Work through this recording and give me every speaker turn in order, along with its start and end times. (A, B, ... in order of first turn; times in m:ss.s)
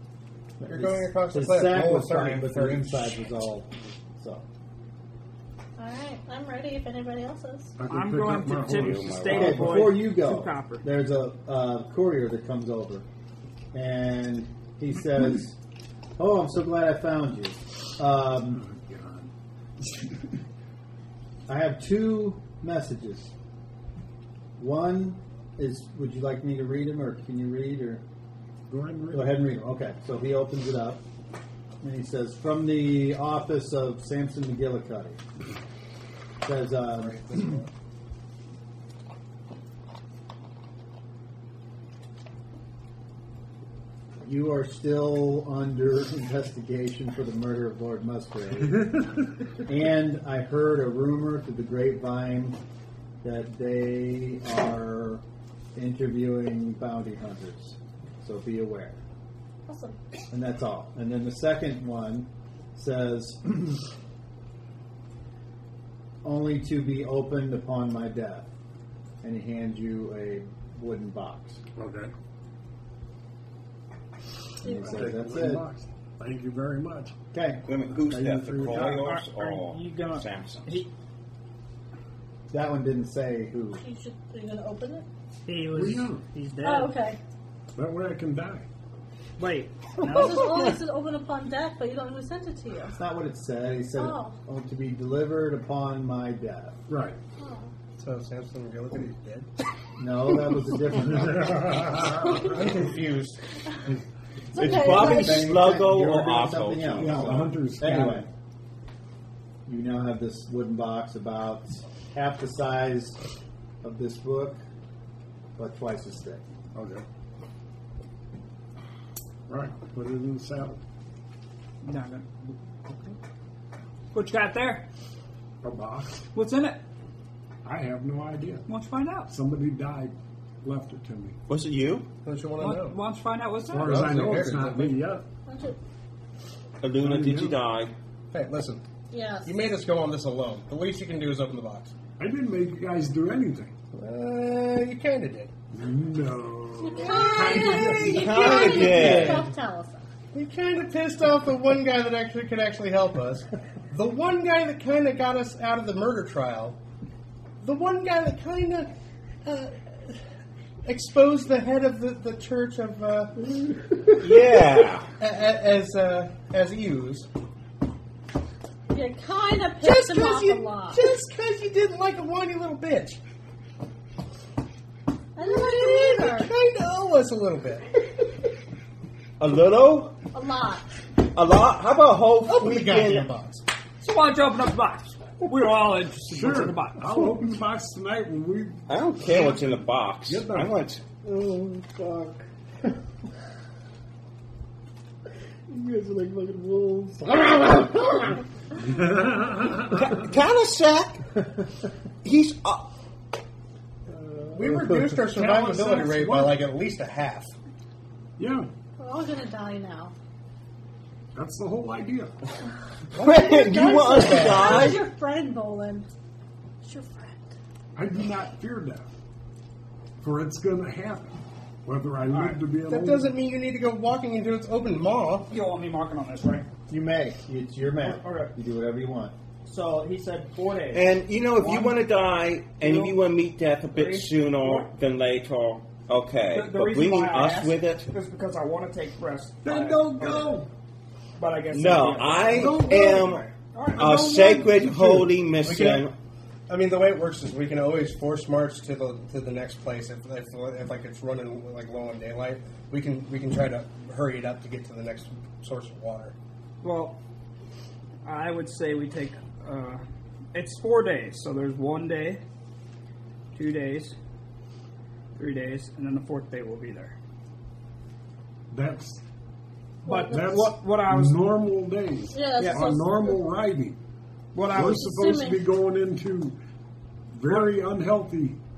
0:00.6-0:04.4 A
0:00.6-0:03.2 B
0:05.8-0:07.7 C
0:07.8-0:09.8 D
0:07.8-0:10.8 E
0:08.6-0:09.9 F
0:09.3-0:13.0 A
0:13.7-0:15.6 A
0:16.2-0:18.6 A
0:18.6-0:19.3 D
0:21.5-0:23.3 A
0:24.6-0:28.0 A
0:28.7-0:29.4 D
0:29.1-0:31.0 A
0:31.8-0:35.2 A
0:36.4-0:37.6 A
0:36.9-0:37.7 B
0:44.2-0:49.0 A
0:49.6-0:52.6 A
0:53.2-0:55.2 A
0:55.7-0:59.0 A
0:59.7-1:00.0 C
1:00.3-1:03.8 A
1:06.2-1:08.5 A
1:09.2-1:11.6 A
1:11.8-1:12.1 D
1:14.6-1:15.6 A
1:14.6-1:15.0 C
1:14.6-1:17.1 D
1:17.3-1:17.6 A
1:17.6-1:20.8 F
1:18.1-1:18.9 D
1:18.7-1:20.9 E
1:22.5-1:23.8 A
1:23.8-1:25.1 C
1:25.4-1:27.0 E
1:25.7-1:26.2 D
1:26.6-1:27.2 C
1:27.8-1:28.6 D
1:29.4-1:30.8 E
1:30.0-1:33.0 C
1:33.0-1:36.8 A
1:34.0-1:34.4 C
1:36.9-1:37.2 D
1:37.4-1:37.7 C
1:38.0-1:39.5 B
1:40.0-1:41.8 A
1:41.1-1:42.5 D
1:42.2-1:43.4 B
1:44.5-1:45.5 C
1:44.5-1:47.3 F
1:44.6-1:48.3 A
1:47.0-1:48.3 D
1:49.6-1:53.2 A
1:53.8-1:54.6 A
1:55.6-1:56.4 A
1:56.7-1:57.0 D
1:59.5-2:00.8 D
2:01.8-2:03.1 E
2:04.1-2:04.8 E
2:05.6-2:06.2 D
2:06.3-2:06.8 E
2:07.6-2:08.7 D
2:08.7-2:09.3 E
2:09.3-2:11.4 D
2:11.5-2:12.1 F
2:12.2-2:13.0 B
2:12.6-2:14.2 E
2:13.7-2:15.2 D
2:13.8-2:15.0 B
2:15.5-2:15.8 C
2:16.8-2:17.9 F
2:17.0-2:17.6 D
2:18.3-2:18.8 B
2:19.1-2:19.5 C
2:19.4-2:21.9 B
2:22.2-2:23.7 D
2:23.9-2:25.5 B
2:25.7-2:28.3 D
2:26.8-2:30.0 C
2:27.0-2:29.5 B
2:27.9-2:29.5 F
2:30.3-2:36.8 B
2:37.6-2:38.9 B
2:39.4-2:40.2 B
2:40.8-2:43.5 B
2:44.2-2:45.1 F
2:45.2-2:47.3 B
2:48.9-2:51.0 C
2:49.8-2:53.2 B
2:55.4-2:56.5 C
2:55.4-2:57.9 B
2:59.4-3:00.2 F
3:00.3-3:00.8 C
3:01.2-3:03.3 F
3:02.4-3:03.6 B
3:04.0-3:07.4 E
3:06.3-3:08.8 D
3:08.9-3:11.0 F
3:10.3-3:10.8 D
3:15.7-3:17.3 D
3:18.7-3:20.2 D
3:19.8-3:21.3 F
3:22.2-3:22.9 F
3:24.1-3:26.6 D
3:24.5-3:27.5 B
3:24.7-3:25.4 A
3:28.4-3:28.7 D
3:29.0-3:30.1 C
3:31.3-3:32.3 D
3:33.1-3:35.0 B
3:33.1-3:35.0 F
3:33.5-3:36.1 C
3:36.8-3:37.5 C
3:38.0-3:39.1 D
3:40.2-3:43.4 D
3:42.3-3:42.7 E
3:42.8-3:45.5 B
3:45.5-3:46.7 E
3:46.9-3:49.3 A
3:48.0-3:48.5 E
3:49.6-3:52.0 E
3:50.9-3:58.1 F
3:52.8-3:53.2 E
3:53.9-3:54.9 E
3:56.5-4:00.7 E
3:59.6-4:00.7 D
4:01.4-4:04.6 E
4:01.7-4:06.1 F
4:02.5-4:03.4 D
4:04.0-4:05.3 D
4:05.6-4:06.1 B
4:06.7-4:16.3 B
4:16.8-4:17.2 E
4:18.2-4:20.0 E
4:20.5-4:22.4 E
4:23.5-4:24.2 E
4:25.4-4:27.1 E
4:28.7-4:29.2 D
4:30.0-4:30.5 C
4:30.0-4:31.6 E
4:30.3-4:34.0 D
4:32.3-4:33.4 C
4:32.6-4:33.0 E
4:34.5-4:35.1 E
4:34.7-4:36.6 D
4:34.9-4:35.6 C
4:37.3-4:38.6 D